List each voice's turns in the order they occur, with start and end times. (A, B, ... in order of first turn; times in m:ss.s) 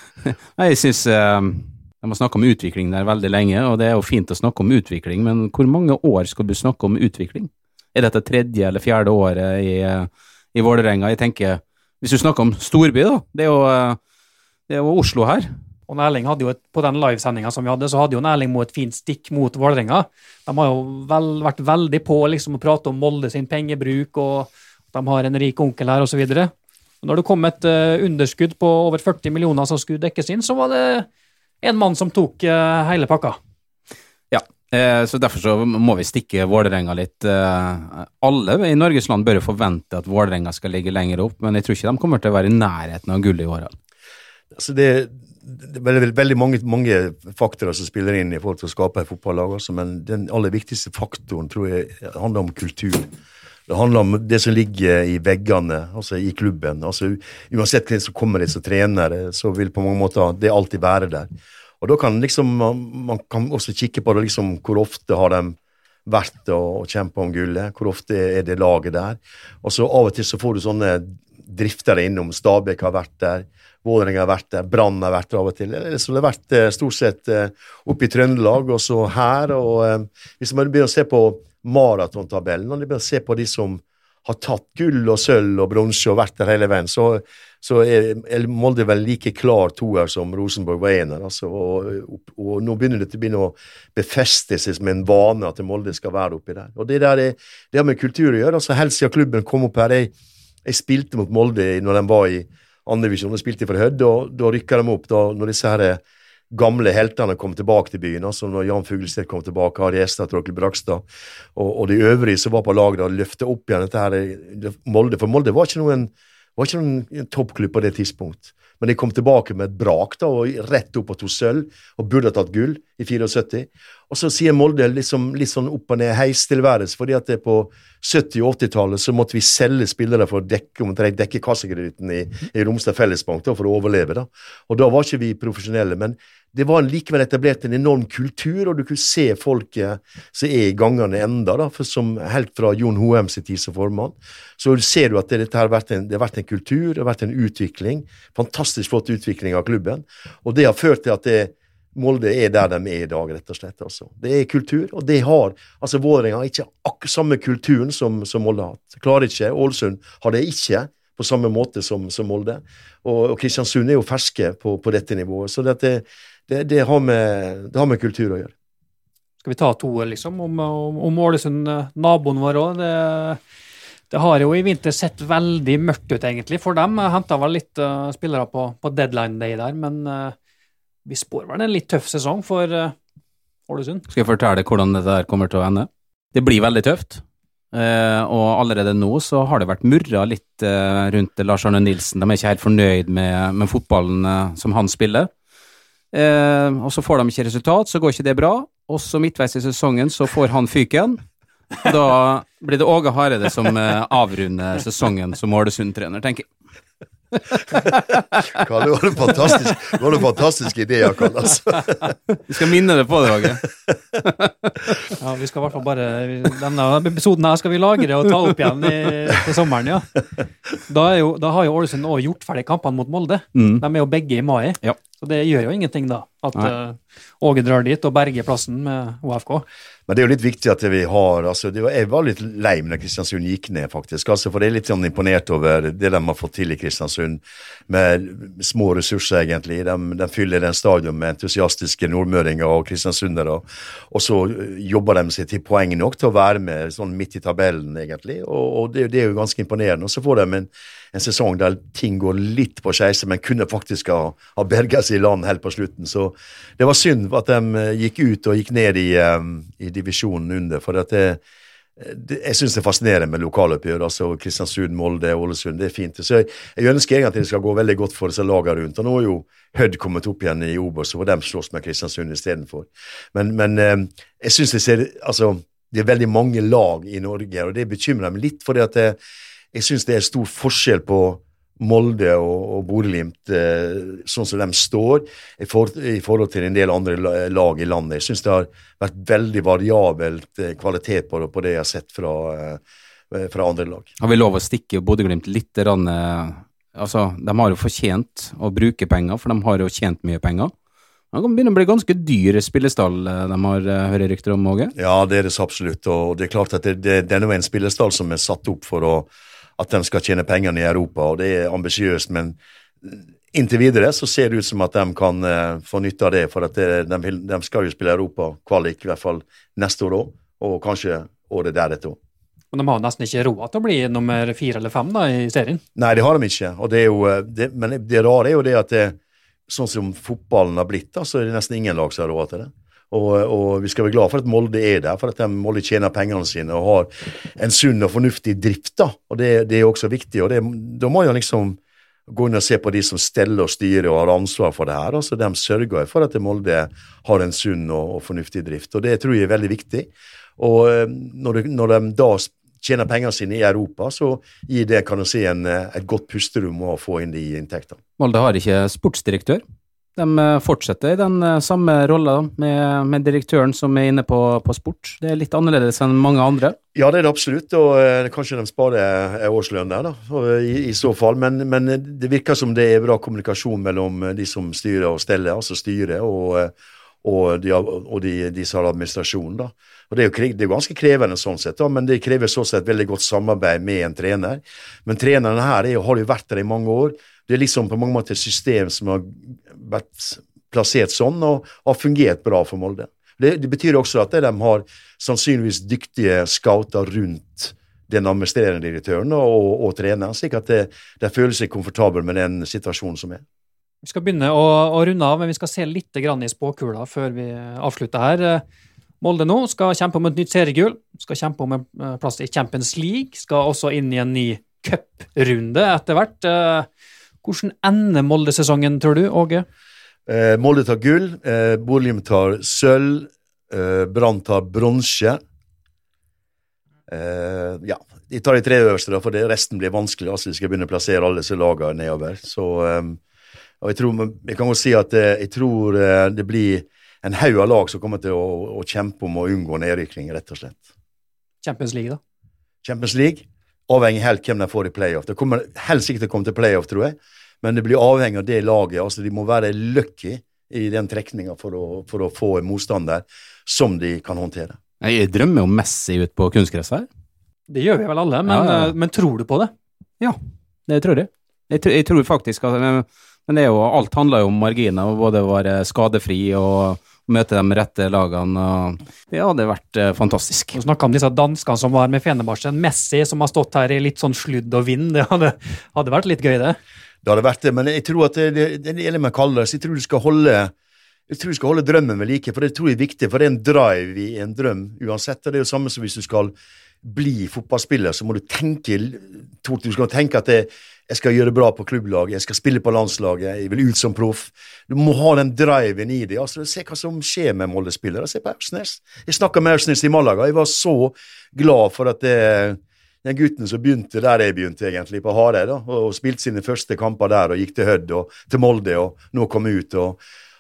0:00.2-0:14.0 A
0:14.7-0:15.5 A
0:15.9-0:31.1 B
0:31.6-0:33.4 B
0:34.3-0:43.8 A
0:44.5-0:53.1 C
0:53.7-1:01.3 C
1:01.8-1:40.1 C
1:40.6-1:51.0 C
1:51.6-2:48.5 C
2:49.4-2:53.4 B
2:54.1-3:00.4 B
3:01.1-3:03.0 B
3:03.7-3:04.0 B
3:04.1-3:07.2 A
3:07.7-3:15.3 A
3:16.1-3:21.2 A
3:21.8-3:26.5 A
3:27.7-3:28.2 A
3:28.5-3:32.2 C
3:32.4-3:33.6 A
3:35.2-3:40.1 B
3:40.9-3:49.7 B
3:43.6-3:43.8 A
3:50.1-4:21.4 C
4:22.0-4:39.2 C
4:39.7-4:54.1 C
4:54.2-5:00.7 A
5:01.3-5:04.9 A
5:05.0-5:22.2 C
5:22.7-5:25.8 B
5:26.0-5:29.2 C
5:29.7-5:58.0 C
5:58.2-5:59.6 A
6:00.2-6:06.8 A
6:07.0-6:43.4 C
6:44.0-6:48.6 B
6:49.2-6:56.9 B
6:57.4-6:59.6 B
7:00.3-7:05.4 C
7:07.1-7:13.2 C
7:13.8-7:20.9 C
7:21.6-7:22.2 B
7:22.8-7:34.8 C
7:35.0-7:37.1 A
7:37.7-7:39.7 B
7:38.5-7:38.9 A
7:40.9-7:50.8 A
7:50.8-7:56.8 B
7:57.2-8:00.7 C
8:01.3-8:30.2 C